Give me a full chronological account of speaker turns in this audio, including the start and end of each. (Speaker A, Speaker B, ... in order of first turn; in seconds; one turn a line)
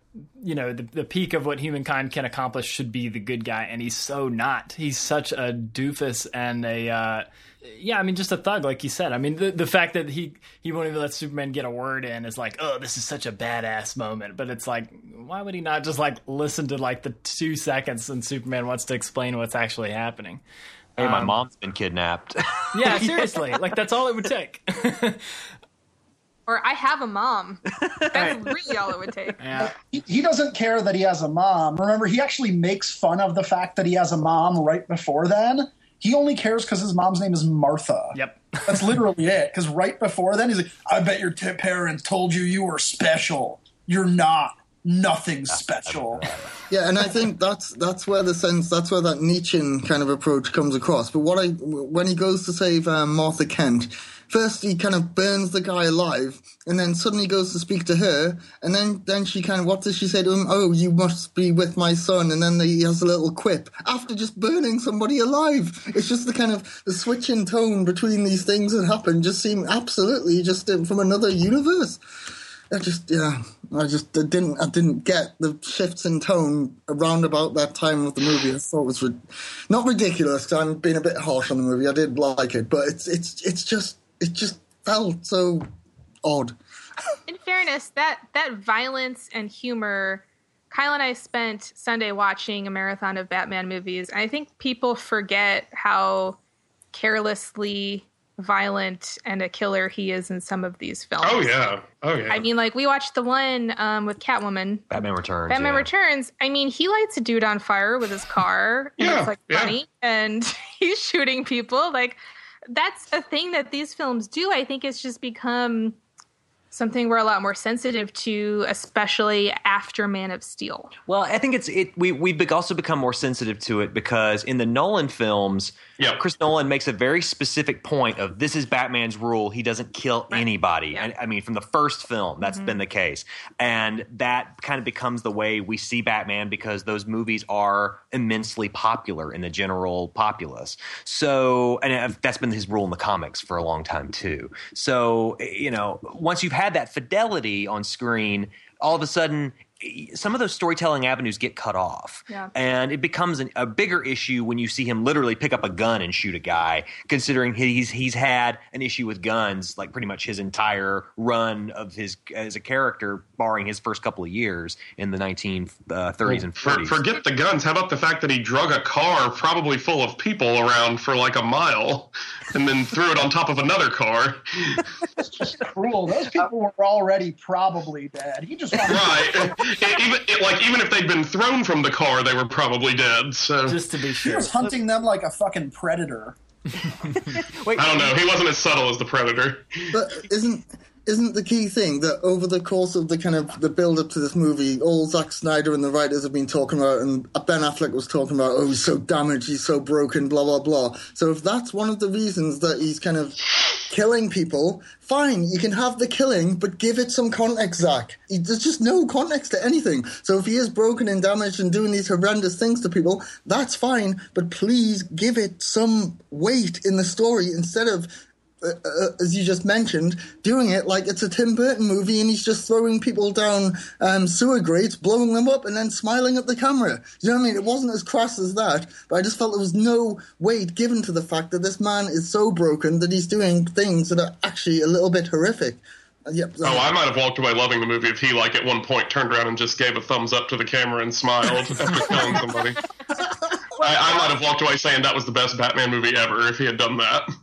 Speaker A: 0.4-20.4
Speaker A: 21.0-21.4
Speaker B: 21.0-23.5
Speaker A: 22.7-25.3
Speaker C: 26.5-29.4
Speaker B: 27.8-28.4
Speaker A: 29.4-29.8
Speaker D: 29.6-46.3
Speaker A: 38.1-39.0
Speaker B: 45.5-46.5
Speaker E: 46.7-72.0
Speaker E: 72.7-85.7
Speaker E: 86.2-86.5
Speaker C: 87.3-96.4
Speaker C: 96.9-101.6
Speaker F: 101.2-102.4
Speaker C: 102.3-104.9
Speaker B: 104.9-105.9
Speaker C: 105.5-112.2
Speaker F: 109.0-109.8
Speaker C: 112.7-116.0
Speaker C: 116.7-120.9
Speaker B: 121.1-167.0
Speaker C: 132.4-132.8
Speaker F: 166.6-174.8
Speaker D: 175.2-179.5
Speaker F: 178.8-183.8
Speaker A: 183.6-184.7
Speaker D: 184.2-186.4
Speaker B: 187.1-188.2
Speaker F: 187.8-189.9
Speaker E: 189.9-236.9
Speaker F: 236.6-242.8
Speaker F: 243.8-247.3